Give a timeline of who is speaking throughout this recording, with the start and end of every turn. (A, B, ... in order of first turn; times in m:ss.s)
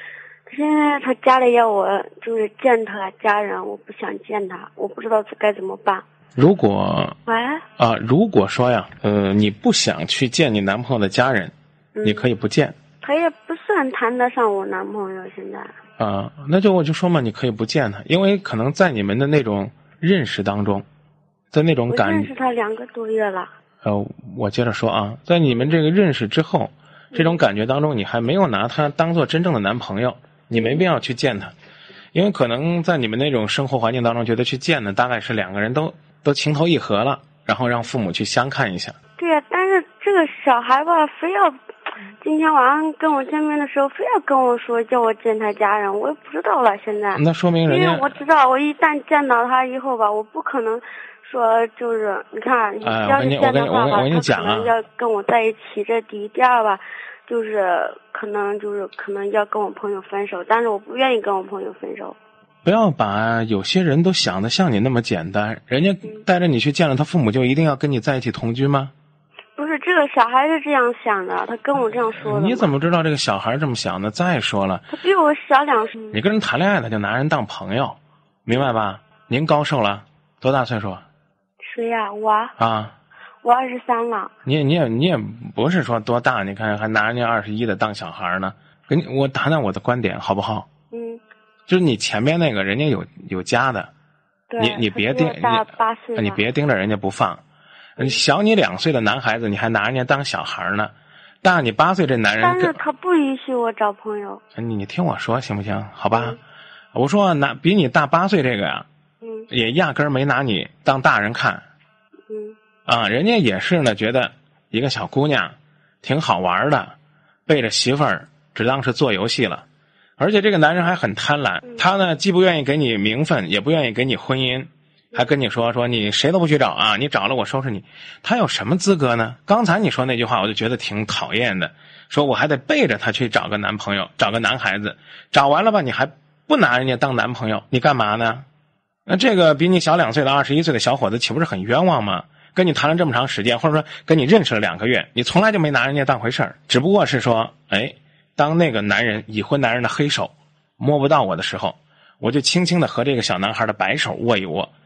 0:00.5-0:06.0 A
0:06.4-0:07.2 B
0:07.3-0:07.6 A
0:07.8-0:12.8 B
0:12.0-0:12.3 A
0:13.0-0:15.8 A
0:16.0-0:20.9 B
0:21.5-0:22.3 B
0:21.9-0:23.5 A
0:23.8-0:31.5 B
0:27.1-0:27.4 A
0:30.6-0:30.9 A
0:32.1-0:39.0 B
0:39.2-1:02.2 A
0:47.2-0:48.2 B
0:52.8-0:54.7 B
1:02.6-1:08.9 B
1:09.6-1:12.7 A
1:12.2-1:14.9 B
1:14.9-1:16.2 A
1:16.1-1:21.0 B
1:21.6-1:22.6 A
1:22.6-1:23.0 B
1:23.4-1:24.3 A
1:24.5-1:30.7 B
1:30.9-1:31.2 A
1:31.7-1:33.9 B
1:34.5-1:36.4 A
1:34.6-1:37.4 B
1:38.0-1:42.8 B
1:42.4-1:44.4 A
1:44.6-1:46.4 B
1:46.1-1:46.4 A
1:46.9-1:48.9 B
1:49.2-1:49.5 A
1:49.5-1:51.6 B
1:52.3-1:52.6 A
1:52.9-1:57.0 B
1:57.5-1:59.7 B
2:00.2-2:18.5 B
2:19.1-2:34.7 B